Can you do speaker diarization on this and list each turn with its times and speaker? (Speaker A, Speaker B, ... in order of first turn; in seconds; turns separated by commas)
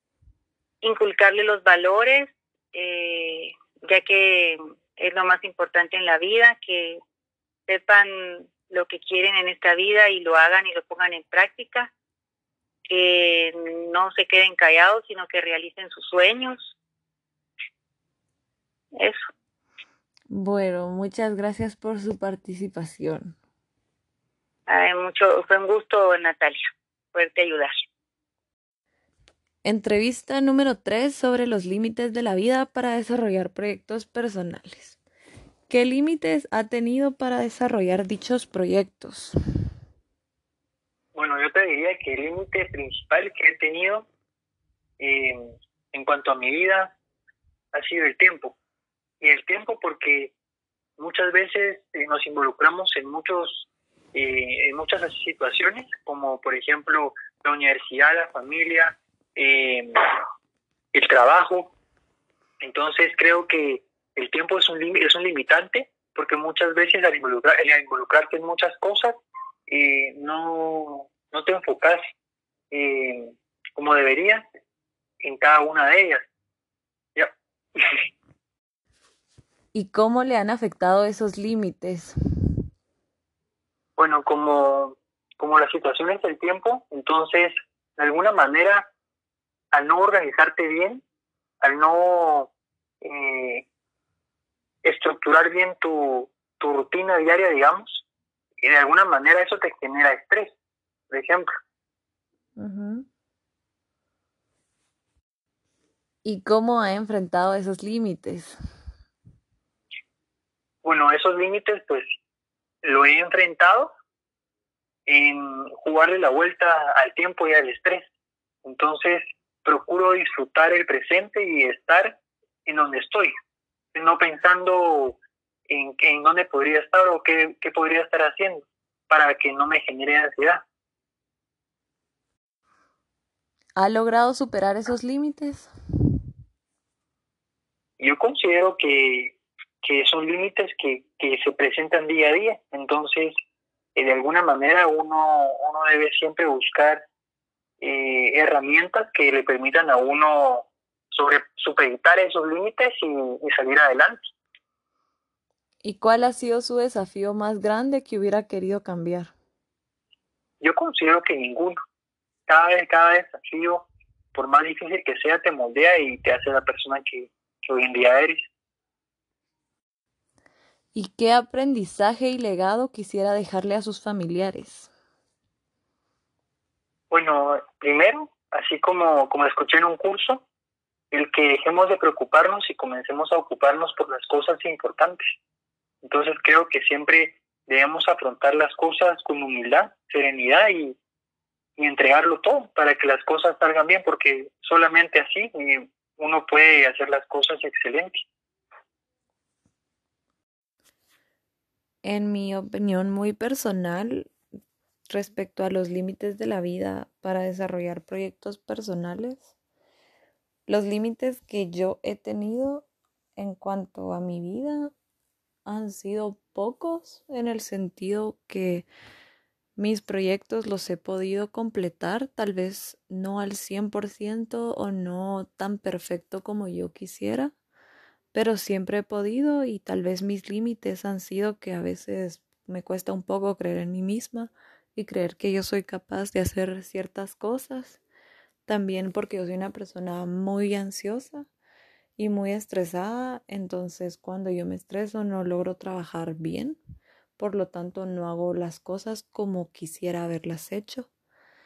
Speaker A: 0.8-7.0, Speaker A: 7.7-11.9, Speaker A: 12.9-16.7, Speaker A: 18.9-19.2, Speaker B: 20.3-23.4, Speaker A: 24.7-26.6, Speaker A: 27.1-27.7, Speaker B: 29.6-35.0, Speaker B: 35.7-39.3, Speaker C: 41.1-44.0, Speaker C: 45.0-46.9, Speaker C: 47.7-48.5, Speaker C: 49.2-50.3, Speaker C: 51.0-60.0, Speaker C: 60.9-61.7, Speaker C: 62.6-69.2, Speaker C: 69.7-72.0, Speaker C: 72.7-74.4, Speaker C: 75.2-76.2, Speaker C: 77.2-78.0, Speaker B: 79.7-82.1, Speaker C: 84.0-88.9, Speaker C: 89.7-91.0, Speaker C: 91.6-92.5, Speaker C: 93.0-93.6, Speaker C: 94.8-98.0, Speaker C: 98.6-100.5, Speaker C: 101.1-101.5, Speaker B: 102.5-103.0, Speaker B: 106.2-108.6, Speaker C: 110.8-112.0, Speaker C: 112.8-113.9, Speaker C: 115.1-118.0, Speaker C: 118.6-123.3, Speaker C: 123.9-125.2, Speaker C: 125.7-130.6, Speaker B: 133.8-135.7, Speaker C: 138.0-143.3, Speaker C: 143.9-147.0, Speaker C: 147.8-154.3, Speaker B: 155.8-159.3, Speaker C: 160.6-161.8, Speaker C: 162.5-168.4, Speaker B: 170.9-174.9, Speaker C: 177.1-180.4, Speaker C: 181.1-185.3, Speaker C: 186.0-190.9, Speaker C: 191.8-198.2, Speaker B: 202.0-204.3, Speaker B: 205.1-209.5, Speaker B: 210.7-214.9, Speaker B: 215.7-218.8, Speaker B: 219.8-227.5, Speaker B: 228.3-238.0, Speaker B: 238.7-241.5, Speaker B: 242.2-246.8, Speaker B: 247.4-251.1